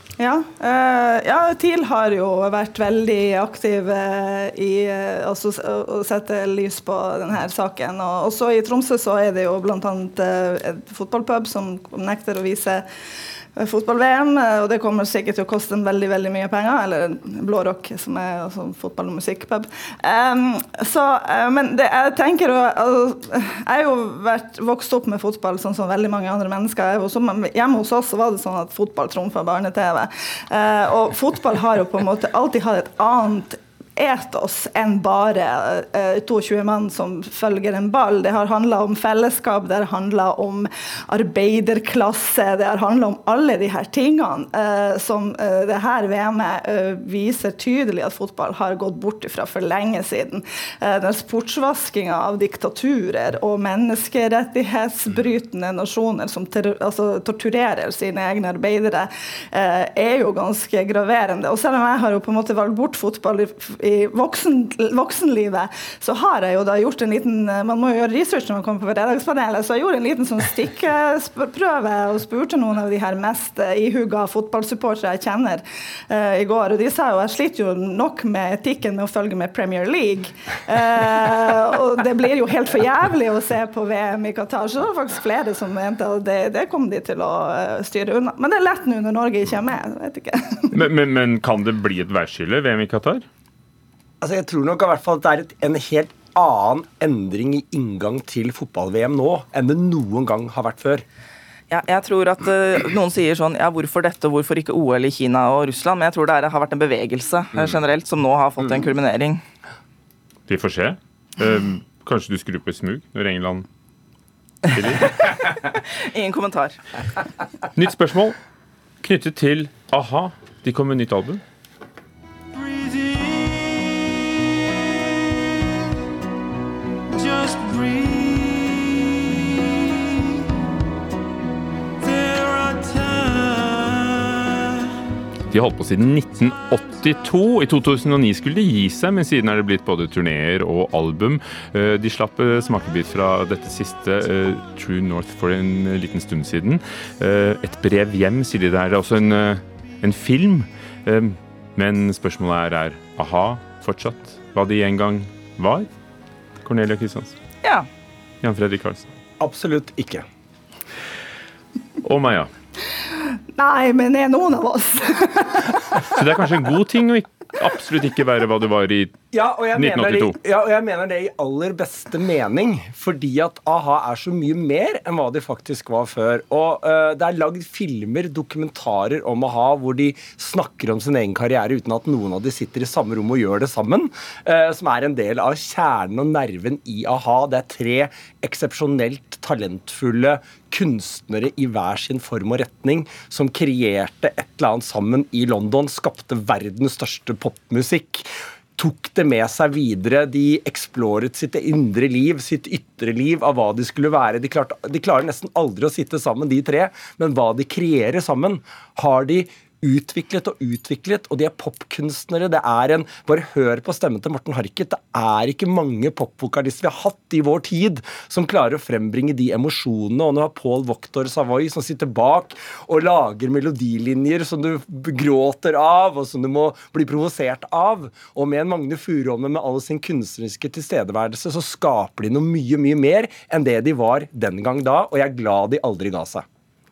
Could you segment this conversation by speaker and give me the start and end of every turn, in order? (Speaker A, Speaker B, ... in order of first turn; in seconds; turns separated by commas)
Speaker A: 0.2-12.8, Speaker A: 13.6-90.8, Speaker B: 90.7-93.2, Speaker C: 94.2-101.0, Speaker D: 101.7-109.4, Speaker B: 110.5-113.6, Speaker B: 114.7-115.0, Speaker D: 115.1-117.0, Speaker B: 117.8-118.4, Speaker B: 119.0-121.4, Speaker B: 135.5-155.9, Speaker B: 156.6-157.3, Speaker B: 158.4-159.0, Speaker C: 159.4-160.2, Speaker B: 162.0-162.5, Speaker A: 163.6-165.9, Speaker B: 166.0-169.2, Speaker C: 169.3-236.4, Speaker B: 169.8-170.3